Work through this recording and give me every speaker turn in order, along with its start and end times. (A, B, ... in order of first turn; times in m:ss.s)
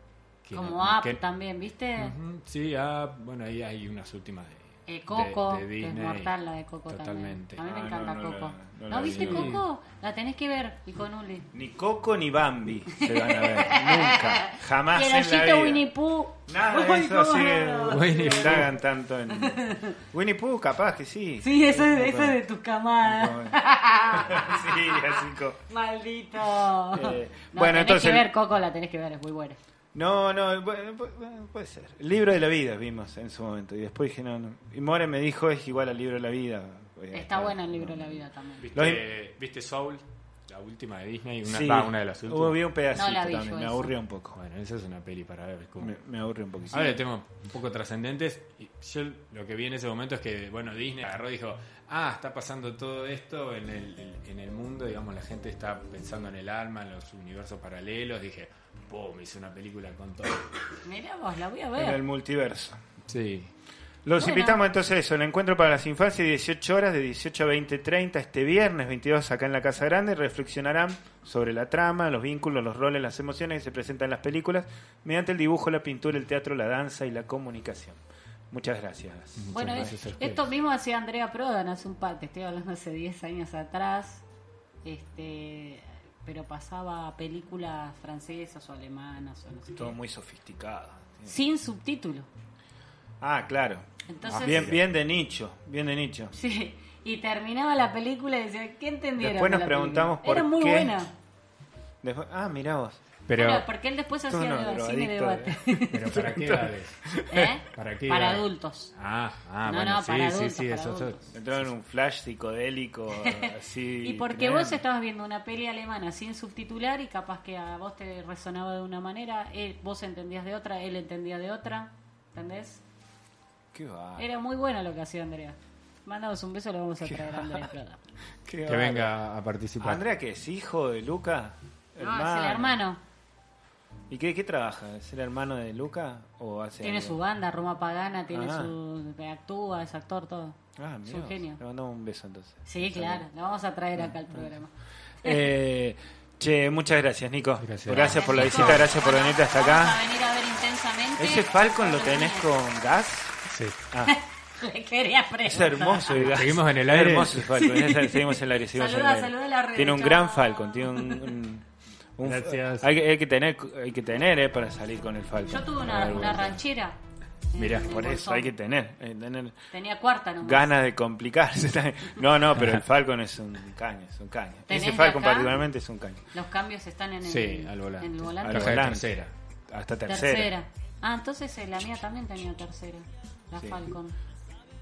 0:00.4-0:01.2 A
0:00.5-0:02.2 B
0:02.0-0:06.3 A
0:04.9-0:11.5 B
0:06.9-0:07.6 A
0:07.6-0:09.6 C
0:08.9-0:09.6 A
0:11.5-0:15.9 C
0:12.9-0:18.7 B
0:16.5-0:22.4 C
0:17.9-0:18.7 A
0:19.4-0:20.0 B
0:21.4-0:29.6 B
0:23.0-0:25.6 C
0:26.9-0:28.2 C
0:29.9-0:38.2 C
0:37.1-0:38.7 B
0:38.6-0:42.6 A
0:38.7-0:39.0 C
0:41.4-0:44.4 C
0:42.9-0:43.9 B
0:44.4-0:45.9 A
0:45.8-0:46.9 C
0:46.7-1:00.6 A
1:00.8-1:02.0 B
1:01.8-1:02.8 C
1:03.1-1:03.5 A
1:04.0-1:20.0 C
1:04.2-1:04.6 B
1:19.4-1:20.5 A
1:19.5-1:24.2 B
1:24.8-1:30.0 B
1:29.8-1:31.4 C
1:31.2-1:32.3 B
1:33.2-1:36.3 C
1:34.1-1:34.7 B
1:34.2-1:34.8 A
1:36.3-1:41.1 B
1:39.2-1:40.9 C
1:42.0-1:43.0 C
1:43.3-1:43.7 A
1:43.3-1:46.1 B
1:44.3-1:47.5 C
1:45.9-1:47.0 A
1:47.3-1:48.9 B
1:47.7-1:51.4 A
1:49.6-1:51.2 B
1:51.3-1:54.8 C
1:53.2-2:02.8 B
2:03.7-2:04.3 C
2:04.2-2:08.0 B
2:07.1-2:07.7 C
2:08.4-2:09.1 C
2:08.6-2:10.0 A
2:09.8-2:12.8 C
2:12.0-2:13.0 B
2:14.1-2:17.2 C
2:16.8-2:21.6 B
2:18.3-2:18.7 C
2:20.8-2:23.2 C
2:22.6-2:24.7 B
2:24.0-2:24.5 C
2:25.2-2:30.0 C
2:25.2-2:25.5 B
2:27.6-2:28.8 A
2:27.9-2:32.5 B
2:31.2-2:33.4 C
2:33.5-2:33.8 A
2:33.9-2:34.2 C
2:34.0-2:36.4 B
2:35.4-2:41.6 C
2:36.1-2:37.5 A
2:37.5-2:41.4 B
2:42.2-2:46.6 C
2:42.2-2:42.9 A
2:45.4-2:47.0 B
2:46.0-2:46.4 A
2:47.5-2:48.5 B
2:47.6-2:48.0 A
2:47.6-2:49.6 C
2:49.7-2:50.7 B
2:50.4-2:56.2 C
2:52.6-2:52.8 A
2:54.7-2:55.6 B
2:56.3-2:58.9 B
2:57.2-2:59.3 A
2:58.4-2:59.2 C
2:59.7-3:00.5 C
3:00.0-3:04.1 B
3:03.5-3:03.8 C